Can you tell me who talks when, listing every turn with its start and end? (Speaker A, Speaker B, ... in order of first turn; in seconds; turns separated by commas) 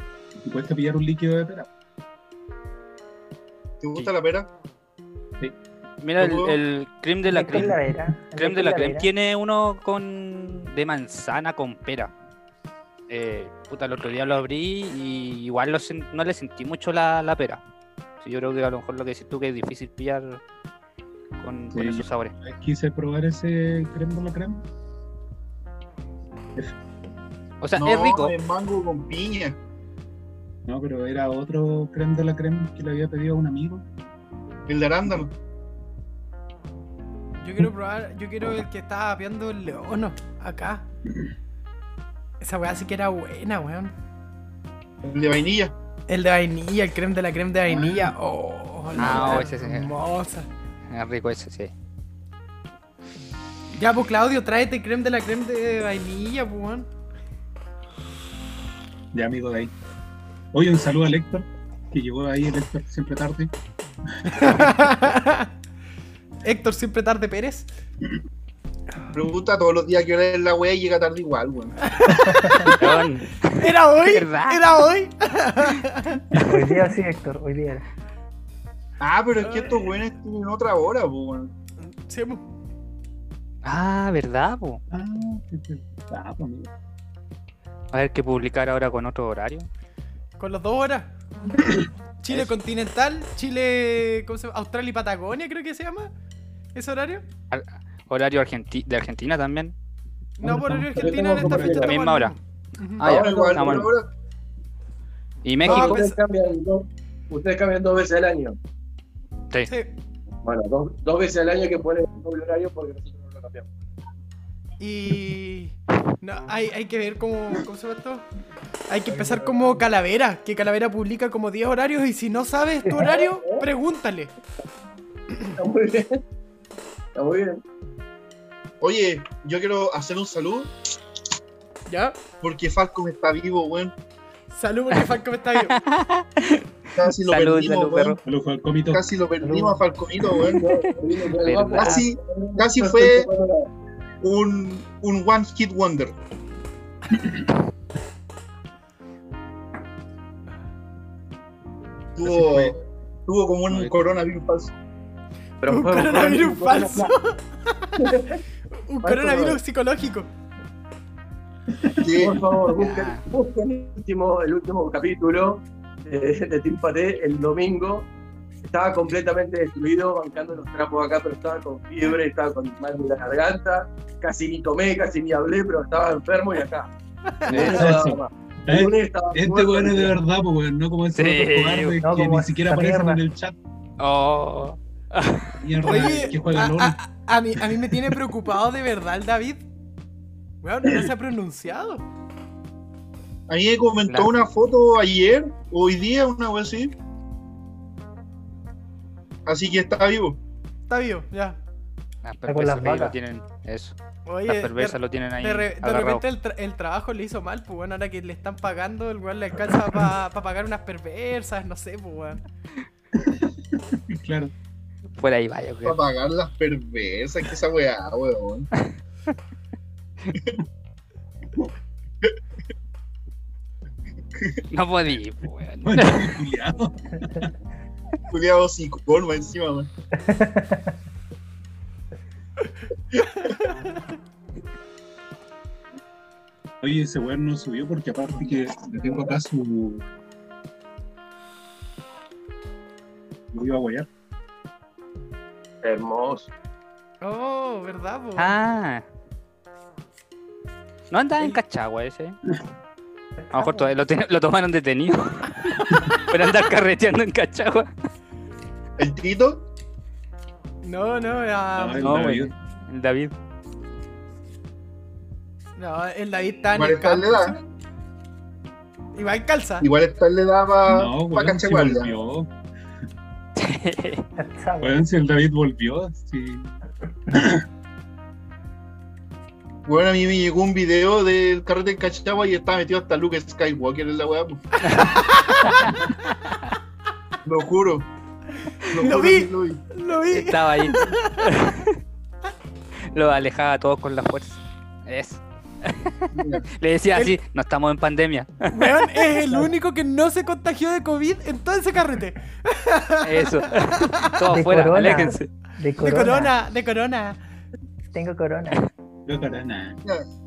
Speaker A: 0.4-1.7, Speaker B: 3.8-4.5, Speaker C: 6.0-7.7, Speaker B: 6.2-6.6, Speaker D: 7.3-9.1, Speaker A: 7.5-7.8, Speaker C: 8.4-12.1, Speaker C: 13.1-17.6, Speaker C: 18.2-20.4, Speaker C: 21.4-22.3, Speaker A: 21.7-24.6, Speaker C: 27.6-28.3, Speaker B: 27.8-29.6, Speaker A: 30.7-33.8, Speaker B: 34.7-35.3, Speaker E: 37.4-40.9, Speaker E: 42.4-43.9, Speaker B: 45.0-45.7, Speaker E: 46.1-50.5, Speaker A: 47.7-48.1, Speaker A: 49.0-49.4, Speaker C: 49.0-49.9, Speaker C: 50.9-51.7, Speaker E: 53.7-56.9, Speaker A: 59.1-59.7, Speaker A: 60.5-63.5, Speaker E: 64.3-65.5, Speaker E: 66.4-67.7, Speaker B: 69.1-71.8, Speaker E: 71.8-73.0, Speaker C: 72.7-74.6, Speaker E: 73.5-76.2, Speaker D: 76.3-77.8, Speaker B: 79.0-81.5, Speaker E: 79.4-80.0, Speaker E: 82.0-82.4, Speaker C: 83.6-84.8, Speaker A: 84.9-86.7, Speaker C: 87.9-89.7, Speaker E: 90.4-91.1, Speaker E: 92.2-96.1, Speaker E: 96.8-97.2, Speaker C: 97.5-99.8, Speaker E: 100.4-103.1, Speaker A: 100.4-101.8, Speaker F: 101.0-102.0, Speaker C: 101.7-102.3, Speaker C: 103.0-103.9, Speaker B: 103.0-104.1, Speaker C: 105.5-106.0, Speaker F: 105.6-108.6, Speaker E: 105.6-106.2, Speaker E: 109.7-109.9, Speaker F: 110.4-113.7, Speaker E: 114.8-118.3, Speaker E: 118.9-124.3, Speaker D: 119.1-119.8, Speaker D: 122.8-123.2, Speaker F: 123.1-123.7, Speaker F: 125.6-126.2, Speaker F: 127.2-127.6, Speaker B: 128.8-130.7, Speaker E: 131.9-132.2, Speaker B: 132.4-133.9, Speaker E: 134.5-135.8, Speaker C: 135.7-138.2, Speaker B: 137.0-138.2, Speaker A: 138.2-139.0, Speaker B: 138.9-140.7, Speaker D: 139.4-139.8, Speaker F: 140.4-143.7, Speaker C: 141.4-142.0, Speaker B: 141.8-143.3, Speaker B: 144.2-146.2, Speaker B: 152.2-154.7, Speaker A: 152.2-152.8, Speaker A: 153.7-154.0, Speaker F: 155.6-157.1, Speaker E: 155.7-158.2, Speaker F: 158.0-158.4, Speaker E: 158.9-160.3, Speaker F: 159.0-159.6, Speaker B: 162.0-162.4, Speaker F: 162.2-168.1, Speaker C: 162.8-163.2, Speaker F: 168.6-176.9, Speaker E: 177.4-177.8, Speaker F: 177.5-180.2, Speaker A: 177.5-183.6, Speaker C: 181.2-182.0, Speaker D: 182.0-183.2, Speaker C: 184.0-185.6, Speaker A: 185.6-187.0, Speaker E: 185.8-189.6, Speaker E: 190.6-192.1, Speaker B: 193.5-196.9, Speaker B: 199.5-200.4, Speaker E: 200.9-201.6, Speaker C: 202.2-203.9, Speaker D: 202.5-203.2, Speaker E: 204.3-212.4, Speaker C: 204.5-206.2, Speaker A: 213.2-214.5, Speaker C: 215.2-216.0, Speaker B: 215.8-218.7, Speaker C: 224.7-226.4, Speaker A: 225.8-227.5, Speaker B: 228.3-229.9, Speaker D: 230.2-230.8, Speaker A: 236.8-240.1, Speaker A: 243.5-244.1, Speaker F: 245.8-246.5, Speaker E: 247.2-248.5, Speaker C: 248.4-249.1, Speaker C: 251.1-252.4, Speaker C: 253.5-257.9, Speaker B: 259.0-259.6, Speaker E: 260.8-262.1, Speaker A: 261.8-262.5, Speaker C: 262.0-263.3, Speaker E: 265.8-267.6, Speaker B: 266.8-267.6, Speaker E: 269.1-269.9, Speaker B: 269.8-272.1, Speaker A: 270.9-272.5, Speaker C: 273.6-274.3, Speaker D: 274.4-275.0, Speaker A: 274.8-276.8, Speaker A: 277.3-277.6, Speaker B: 279.9-284.6, Speaker E: 284.8-285.9, Speaker C: 284.8-285.9, Speaker B: 287.4-288.1, Speaker B: 288.9-289.8, Speaker E: 289.0-291.4, Speaker C: 290.3-292.0, Speaker C: 293.0-299.1, Speaker B: 296.4-296.7, Speaker E: 298.7-304.3, Speaker C: 303.2-305.5, Speaker D: 304.5-306.5, Speaker E: 306.0-307.4, Speaker D: 308.1-308.8, Speaker A: 309.3-310.0